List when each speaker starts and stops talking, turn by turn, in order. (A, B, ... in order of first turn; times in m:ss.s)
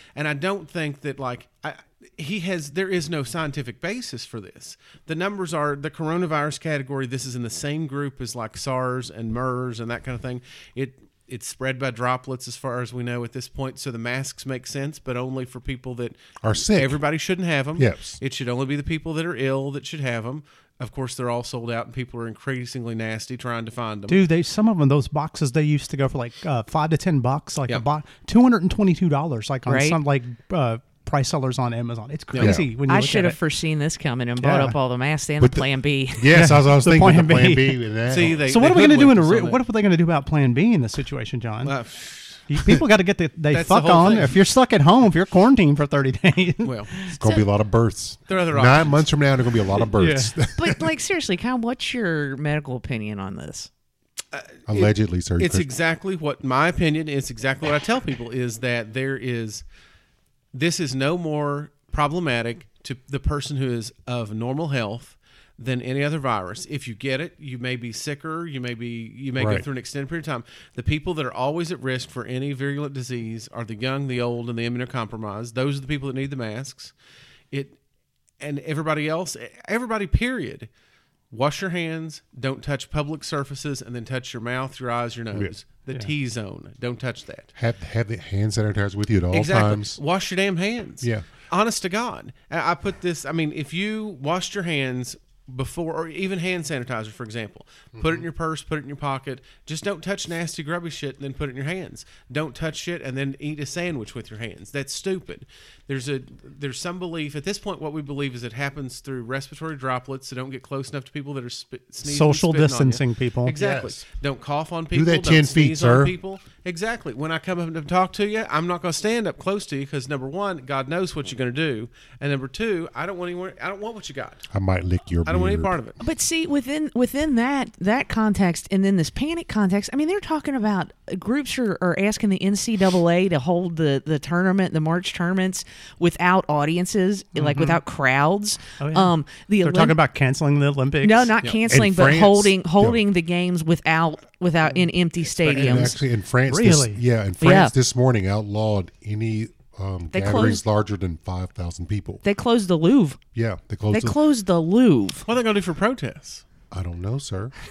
0:00.2-0:24.2 A
0:16.4-0:17.0 B
0:17.8-0:18.2 B
0:24.1-0:33.4 C
0:29.7-0:30.0 D
0:32.3-0:32.6 A
0:32.4-0:32.7 B
0:32.9-0:36.3 D
0:34.4-0:34.8 C
0:35.4-0:38.5 B
0:36.3-0:37.8 C
0:38.1-0:39.6 A
0:38.4-0:41.8 C
0:41.6-0:42.5 A
0:42.5-0:46.9 C
0:43.5-0:44.4 A
0:46.6-0:46.9 A
0:47.1-0:47.5 D
0:47.2-0:50.9 B
0:48.3-0:49.1 A
0:50.0-0:50.3 C
0:50.6-0:53.7 D
0:54.3-0:59.6 A
0:54.7-0:55.7 B
1:00.5-1:16.9 A
1:09.4-1:09.6 B
1:17.5-1:17.8 A
1:18.4-1:20.7 A
1:21.3-1:27.5 A
1:27.6-1:30.0 B
1:29.3-2:04.4 A
1:38.0-1:38.2 B
1:52.0-1:53.5 C
1:53.6-1:54.0 B
1:54.9-1:56.2 B
2:04.5-2:05.7 B
2:05.2-2:06.0 A
2:06.0-2:20.0 D
2:17.3-2:17.8 C
2:18.8-2:21.3 C
2:21.0-2:26.0 D
2:21.7-2:23.0 B
2:25.4-2:32.2 B
2:25.6-2:25.9 C
2:26.5-2:27.0 C
2:27.4-2:27.7 D
2:30.1-2:30.6 D
2:32.2-2:33.2 D
2:33.3-2:34.2 B
2:33.9-2:35.3 D
2:35.3-2:36.4 A
2:36.7-2:37.5 B